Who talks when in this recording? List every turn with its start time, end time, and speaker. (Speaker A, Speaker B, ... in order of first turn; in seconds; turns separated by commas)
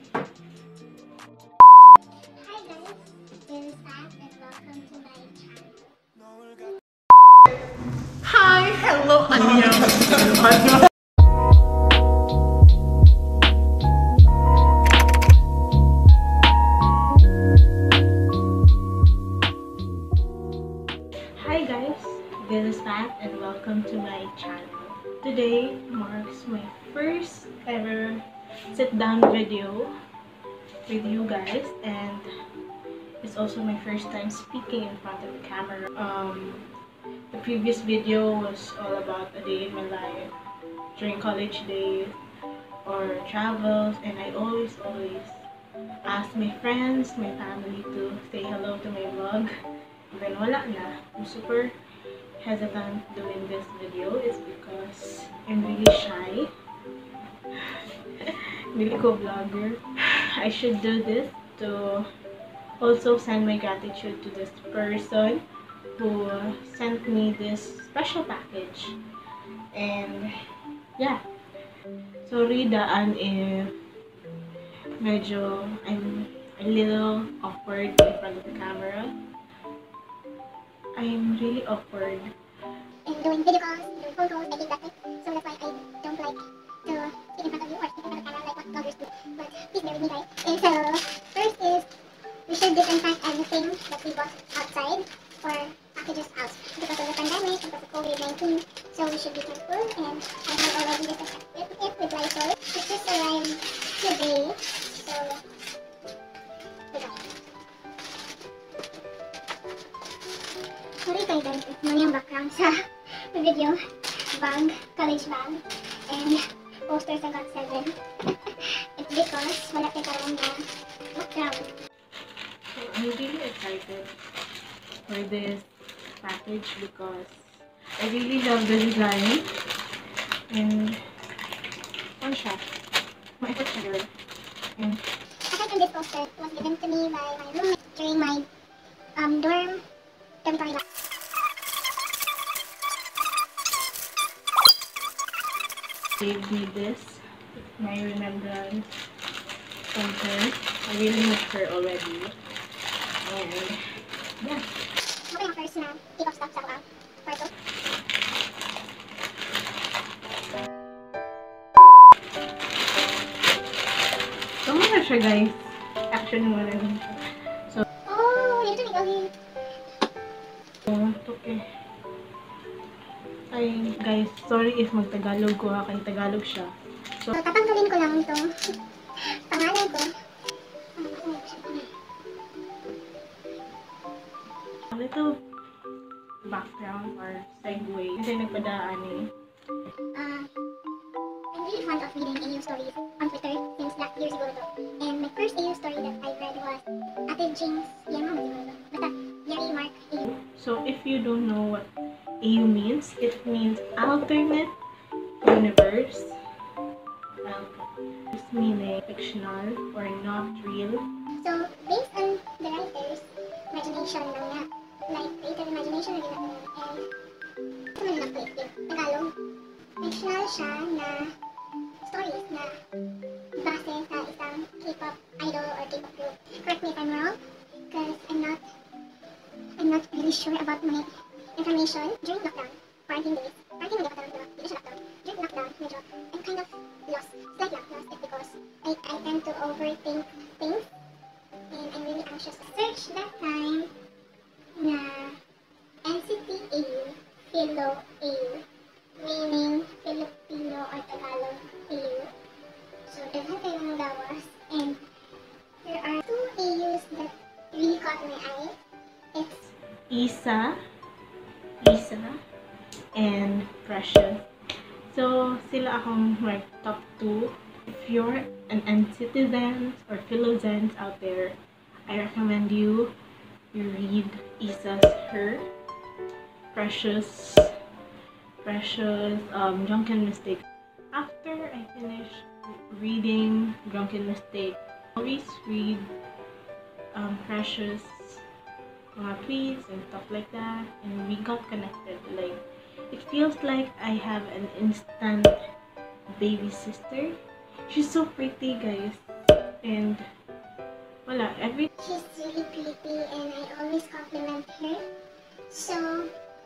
Speaker A: 2.4-6.8, Speaker B: 8.2-10.8, Speaker B: 21.3-29.9, Speaker B: 30.9-32.3, Speaker B: 33.2-36.7, Speaker B: 37.3-40.3, Speaker B: 40.9-42.2, Speaker B: 42.8-45.5, Speaker B: 46.0-49.5, Speaker B: 50.1-51.7, Speaker B: 52.4-56.5, Speaker B: 57.5-62.1, Speaker B: 62.8-65.4, Speaker B: 66.0-69.0, Speaker B: 69.7-70.3, Speaker B: 71.0-71.2, Speaker B: 72.2-73.8, Speaker B: 75.0-79.2, Speaker B: 81.0-82.3, Speaker A: 83.0-91.9, Speaker A: 92.5-105.4, Speaker A: 106.9-107.2, Speaker A: 111.0-112.7, Speaker A: 113.3-113.8, Speaker A: 114.3-121.7, Speaker B: 122.7-124.1, Speaker B: 125.1-125.7, Speaker B: 126.2-129.5, Speaker B: 130.5-131.0, Speaker B: 132.2-132.7, Speaker B: 133.4-134.1, Speaker B: 134.8-135.0, Speaker A: 135.4-138.5, Speaker A: 139.2-139.8, Speaker A: 140.4-140.8, Speaker B: 146.2-148.9, Speaker B: 149.9-152.3, Speaker B: 153.2-154.7, Speaker A: 155.3-157.5, Speaker B: 164.6-167.8, Speaker A: 168.1-169.3, Speaker B: 170.8-171.6, Speaker B: 173.5-177.3, Speaker A: 177.3-178.5, Speaker A: 179.3-180.1, Speaker A: 181.0-181.9, Speaker B: 184.9-185.4, Speaker B: 186.4-189.3, Speaker A: 190.1-190.5, Speaker A: 191.5-200.3, Speaker B: 200.3-201.9, Speaker B: 202.4-204.8, Speaker B: 205.4-206.4, Speaker B: 207.4-211.1, Speaker A: 211.4-217.0, Speaker A: 217.9-219.3, Speaker A: 220.0-221.3, Speaker A: 222.0-222.7, Speaker A: 223.6-228.6, Speaker A: 229.8-240.9, Speaker A: 241.7-243.9, Speaker A: 244.8-245.4, Speaker A: 246.0-248.6, Speaker A: 249.2-252.3, Speaker A: 253.1-255.0, Speaker A: 255.8-258.7, Speaker A: 259.3-259.7, Speaker B: 260.1-260.8, Speaker B: 261.8-262.4, Speaker B: 263.1-264.4, Speaker B: 265.1-273.1, Speaker B: 273.7-275.6, Speaker B: 276.7-277.7, Speaker B: 278.6-286.1, Speaker B: 287.1-288.4, Speaker B: 289.1-295.6, Speaker B: 296.4-297.4, Speaker B: 297.9-299.2, Speaker B: 299.8-300.2, Speaker B: 301.2-301.9, Speaker A: 302.0-305.0, Speaker A: 305.7-306.3